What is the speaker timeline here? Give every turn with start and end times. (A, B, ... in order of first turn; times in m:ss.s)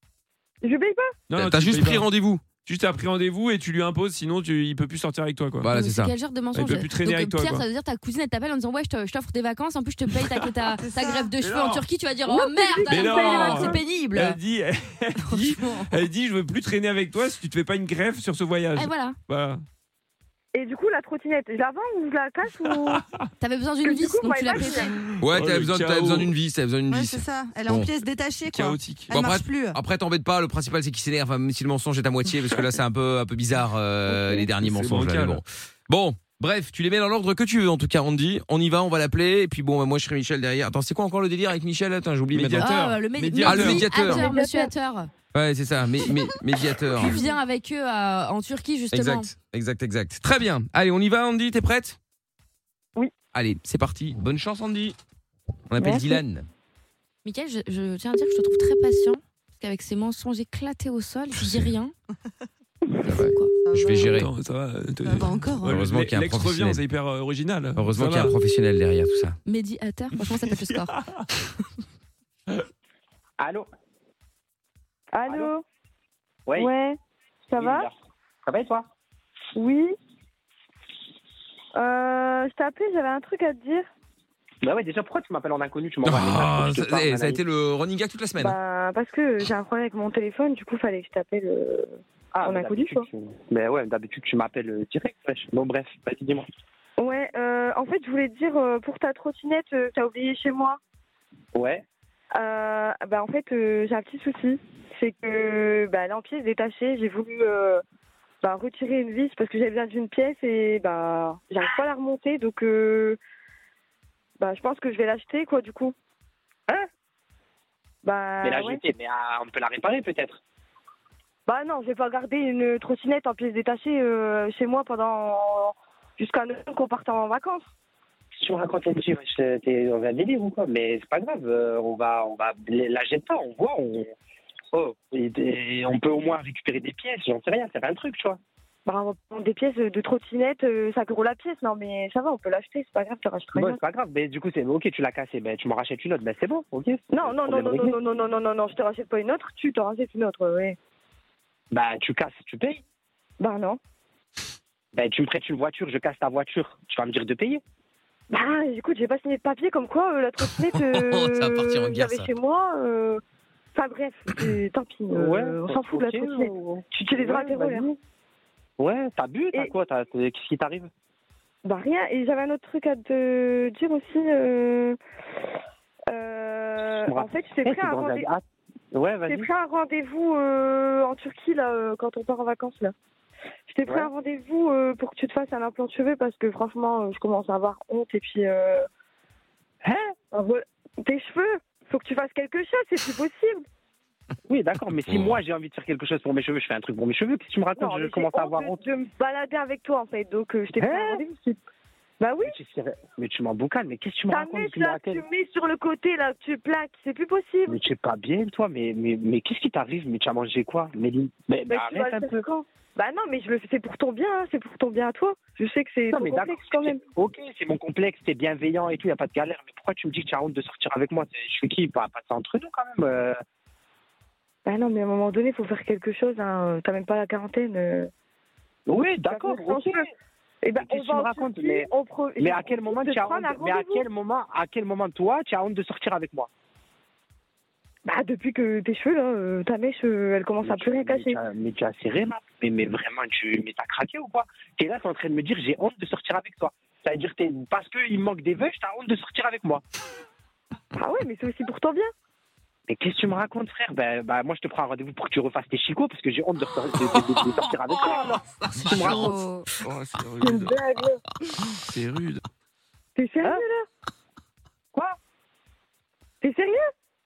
0:00.6-0:01.1 A
0:01.3-0:05.7 B
0:01.3-0:02.5 C
0:05.6-0:06.1 C
0:05.7-0:14.4 D
0:06.5-0:07.6 B
0:10.8-0:11.3 E
0:11.4-0:11.9 B
0:12.2-0:13.8 A
0:12.8-0:19.6 B
0:15.2-0:15.9 D
0:18.7-0:19.2 D
0:20.5-0:23.0 A
0:22.6-0:23.2 B
0:23.4-0:25.0 D
0:23.8-0:24.9 A
0:24.5-0:26.3 B
0:25.2-0:27.9 C
0:26.9-0:29.8 E
0:28.5-0:29.1 B
0:29.1-0:44.3 C
0:34.1-0:35.4 B
0:42.3-0:44.3 B
0:42.6-0:45.1 D
0:44.2-0:44.7 A
0:45.3-0:47.2 C
0:46.9-0:49.3 D
0:48.9-0:52.0 C
0:53.3-0:55.0 C
0:55.7-0:56.5 C
0:55.8-0:56.2 A
0:57.2-1:01.9 D
1:03.0-1:04.3 C
1:03.1-1:03.6 D
1:03.6-1:04.1 E
1:04.1-1:08.3 B
1:05.0-1:05.8 E
1:05.7-1:06.8 C
1:07.8-1:09.4 C
1:09.4-1:10.9 D
1:10.2-1:11.0 B
1:13.4-1:13.7 F
1:15.1-1:15.6 A
1:16.6-1:17.9 A
1:17.6-1:17.9 F
1:18.4-1:18.9 F
1:19.5-1:19.9 A
1:21.7-1:23.9 A
1:24.6-1:27.4 F
1:26.0-1:28.6 C
1:28.4-1:33.0 A
1:32.3-1:36.4 F
1:37.0-1:40.8 A
1:41.5-1:41.8 F
1:42.4-1:47.8 A
1:48.4-1:53.2 A
1:54.4-1:55.9 A
1:58.0-1:58.8 A
1:58.4-2:00.4 F
2:01.5-2:07.6 A
2:08.4-2:14.1 F
2:14.7-2:18.4 F
2:18.8-2:23.8 A
2:23.5-2:27.9 F
2:27.1-2:30.8 A
2:31.7-2:32.8 F
2:33.4-2:33.8 A
2:34.9-2:37.6 F
2:38.3-2:43.2 A
2:40.4-2:42.3 C
2:43.7-2:48.0 A
2:45.1-2:47.9 F
2:48.8-2:50.9 F
2:51.6-2:55.0 A
2:56.1-2:58.3 A
2:57.1-2:58.4 F
2:58.9-2:59.5 F
2:59.3-3:02.9 A
3:03.7-3:08.8 A
3:10.3-3:13.6 A
3:14.5-3:18.8 F
3:15.1-3:15.4 C
3:17.8-3:21.6 A
3:20.8-3:21.2 F
3:22.2-3:22.6 A
3:22.4-3:25.2 F
3:24.3-3:27.8 A
3:27.7-3:32.4 F
3:31.7-3:37.0 A
3:36.1-3:43.4 F
3:44.6-3:48.1 A
3:48.9-3:50.1 F
3:49.2-3:50.0 A
3:50.6-3:54.0 A
3:50.8-3:56.5 F
3:58.0-4:01.4 A
4:00.6-4:09.8 F
4:10.9-4:12.1 A
4:12.9-4:19.4 F
4:17.0-4:20.8 C
4:19.1-4:19.7 D
4:20.4-4:21.2 A
4:21.6-4:22.4 C
4:23.2-4:23.9 A
4:26.4-4:26.8 A